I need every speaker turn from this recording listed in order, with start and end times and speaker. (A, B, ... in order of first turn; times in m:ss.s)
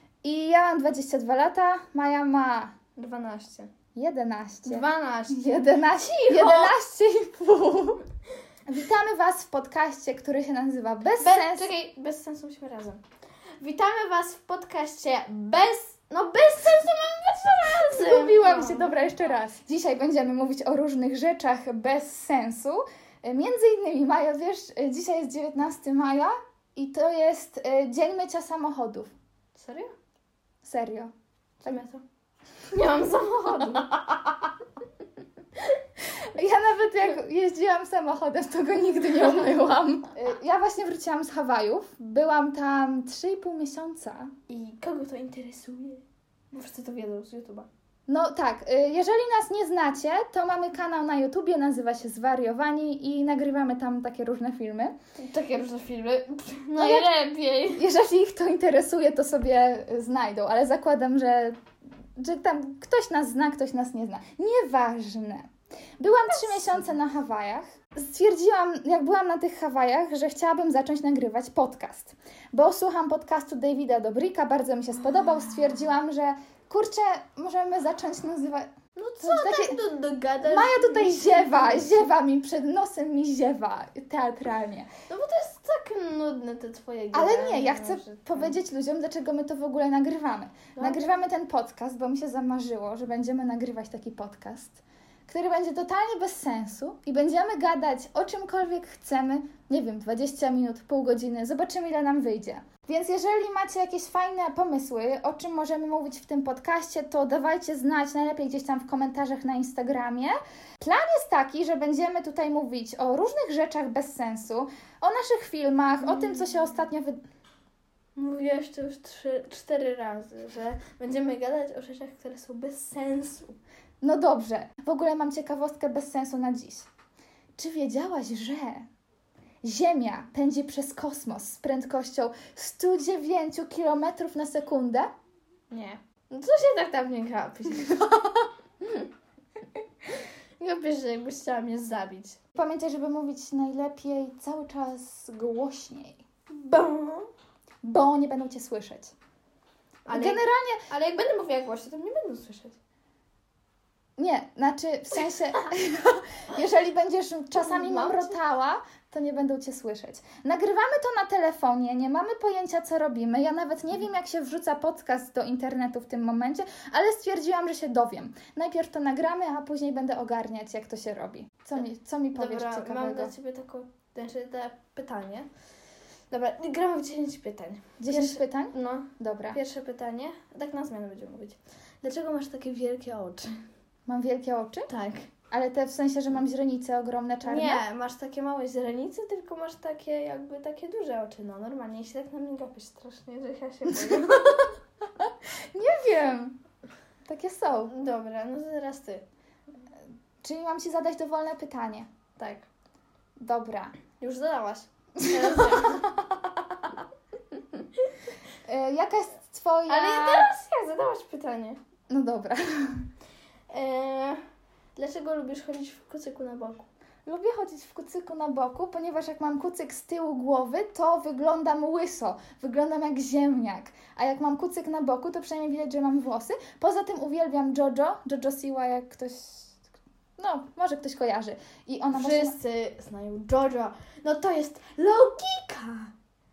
0:00.2-0:02.7 A
0:03.0-0:03.7 B
0:03.9-0:08.0 A
0:04.6-0:06.7 B
0:08.7-0:11.7 A
0:11.2-0:13.0 B
0:13.6-0:19.0 B
0:17.9-0:29.1 A
0:29.5-0:29.9 B
0:30.6-0:31.1 A
0:31.6-0:32.0 B
0:32.7-0:33.9 B
0:36.2-0:44.3 A
0:44.5-0:47.7 B
0:48.1-0:55.0 A
0:55.2-0:57.8 B
0:56.8-0:57.1 A
0:57.7-1:01.6 A
1:02.2-1:19.8 A
1:06.3-1:06.8 B
1:19.0-1:22.1 B
1:20.4-1:24.9 A
1:25.1-1:28.6 B
1:27.1-1:57.2 A
1:30.8-1:31.0 B
1:56.0-1:56.8 B
1:58.2-2:03.6 B
2:04.0-2:06.9 A
2:07.6-2:08.9 A
2:09.6-2:15.1 A
2:15.7-2:18.1 B
2:18.8-2:19.1 B
2:20.6-2:22.4 B
2:22.6-2:26.2 A
2:26.5-2:27.3 B
2:27.8-2:29.1 A
2:30.0-2:32.8 B
2:30.1-2:30.8 A
2:34.2-2:53.3 A
2:37.5-2:38.4 B
2:52.3-2:55.5 B
2:56.3-3:03.5 B
2:58.0-2:59.6 A
3:04.1-3:04.9 A
3:04.9-3:05.3 B
3:05.5-3:07.8 A
3:07.4-3:14.7 B
3:14.0-3:14.7 A
3:15.2-3:16.6 A
3:17.2-3:17.9 A
3:17.9-3:19.2 B
3:20.4-3:22.1 A
3:22.4-3:22.7 B
3:23.4-3:24.0 A
3:24.2-3:26.0 B
3:25.2-3:26.3 A
3:28.6-3:30.5 A
3:29.9-3:31.8 B
3:32.1-3:33.0 A
3:33.7-3:34.4 B
3:35.0-3:36.9 B
3:37.2-3:49.8 A
3:50.4-3:52.6 A
3:52.1-3:56.1 B